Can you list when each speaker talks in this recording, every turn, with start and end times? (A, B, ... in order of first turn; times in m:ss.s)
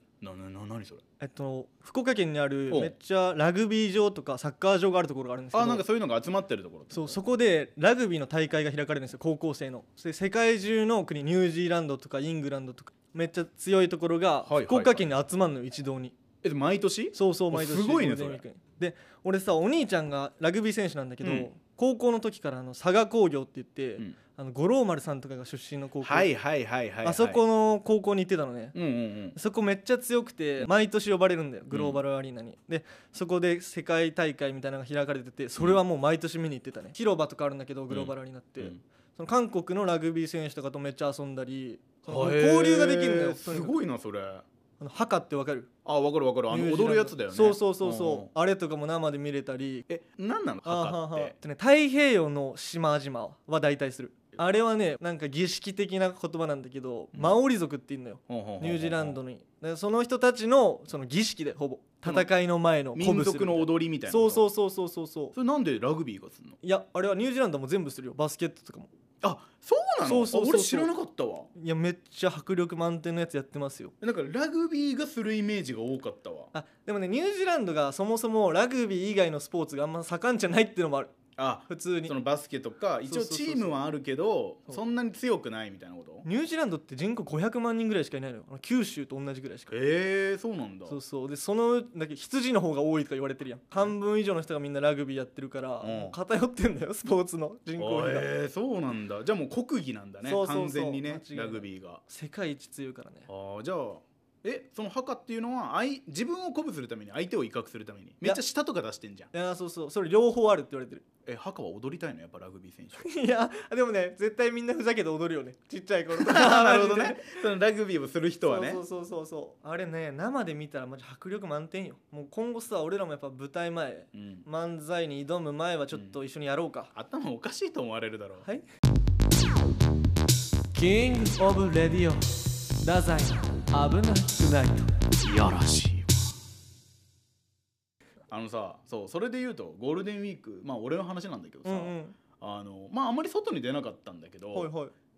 0:00.2-0:01.0 A
0:01.2-0:05.8 B
0:05.5-0:07.2 A
0:06.9-0:16.1 B
0:14.4-0:15.1 A
0:16.4-0:18.4 A
0:17.1-0:26.3 B
0:21.2-0:21.5 A
0:26.0-0:27.4 A
0:27.0-0:28.7 B
0:28.7-0:29.4 A
0:29.4-0:43.7 B
0:31.7-0:32.0 A
0:37.9-0:38.8 A
0:42.1-0:44.4 A
0:44.8-0:45.7 B
0:45.8-0:48.3 A
0:46.5-0:49.8 B
0:49.9-0:51.3 A
0:50.6-1:05.3 B
0:57.1-0:57.4 A
0:58.3-0:59.2 A
1:02.0-1:02.3 A
1:02.9-1:04.4 A
1:05.3-1:06.6 A
1:06.6-1:08.9 B
1:09.2-1:11.5 A
1:10.0-1:10.9 B
1:11.5-1:13.9 B
1:14.0-1:16.5 A
1:16.5-1:21.1 B
1:21.4-1:26.2 A
1:21.7-1:22.1 B
1:23.1-1:23.8 B
1:26.2-1:29.7 B
1:29.7-1:31.0 A
1:30.9-1:38.3 B
1:35.8-1:36.1 A
1:37.8-1:42.0 A
1:40.2-1:43.3 B
1:43.3-1:49.3 A
1:49.3-1:51.0 B
1:51.2-1:53.0 A
1:53.0-1:57.4 B
1:56.1-1:58.8 A
1:58.4-2:06.9 B
2:04.1-2:04.4 A
2:06.9-2:08.5 A
2:10.7-2:14.9 B
2:15.2-2:16.2 A
2:18.3-2:24.7 A
2:21.6-2:22.2 B
2:24.5-2:24.9 B